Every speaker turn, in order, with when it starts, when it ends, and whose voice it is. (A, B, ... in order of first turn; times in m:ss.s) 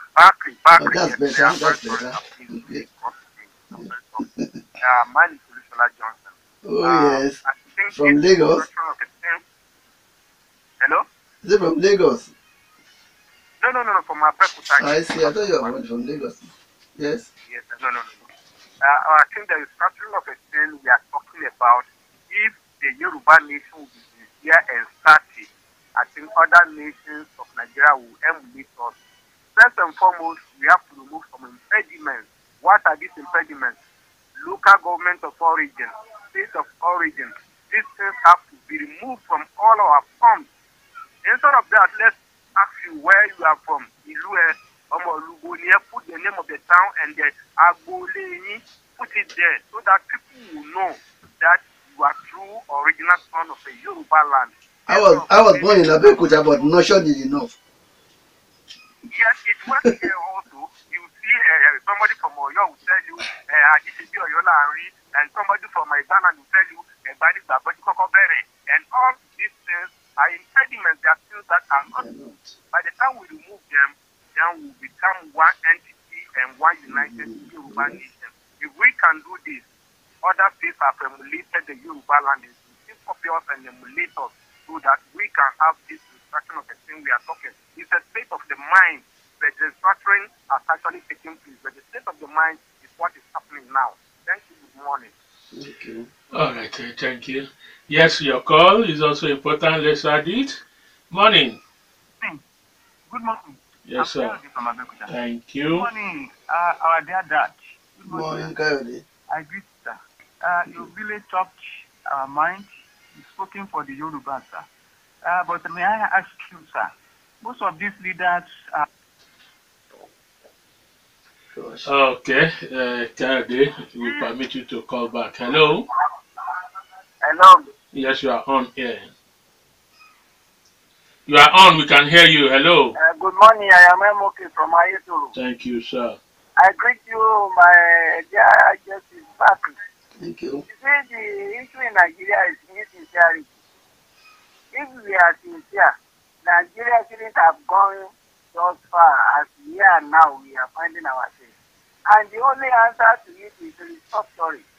0:00.2-0:04.2 A
0:00.8-0:02.8 B
0:04.2-0:04.5 B
0:04.8-0:09.4 A
0:06.6-0:07.4 B
0:07.9-0:08.6 B
0:10.8-0:11.0 A
0:11.4-0:12.3 B
0:13.6-0:15.8 A
0:14.8-0:17.3 B
0:17.5-0:18.3 A
0:18.8-0:28.9 A
0:29.5-0:33.8 A
0:34.4-0:40.5 A
0:41.2-0:56.7 A
0:54.9-0:57.5 B
0:59.1-1:12.0 A
0:59.7-1:00.0 B
1:11.9-1:12.4 B
1:12.7-1:19.6 A
1:16.9-1:18.0 B
1:20.2-1:35.1 A
1:35.5-1:36.1 B
1:36.3-1:40.6 C
1:41.1-1:41.6 C
1:43.1-1:45.1 A
1:43.8-1:44.4 C
1:45.1-1:45.9 C
1:45.7-1:48.5 A
1:48.1-1:49.0 B
1:49.3-1:51.5 A
1:52.1-1:54.7 A
1:55.2-1:56.9 A
1:57.4-1:58.8 A
2:01.5-2:01.9 B
2:01.8-2:05.9 C
2:04.0-2:04.3 A
2:07.2-2:07.7 A
2:07.9-2:09.1 C
2:11.3-2:13.0 C
2:13.0-2:15.3 A
2:15.3-2:16.2 C
2:16.6-2:19.7 A
2:20.2-2:20.6 B
2:20.7-2:23.5 A
2:24.7-2:25.9 A
2:26.4-2:31.5 A
2:32.1-2:34.6 A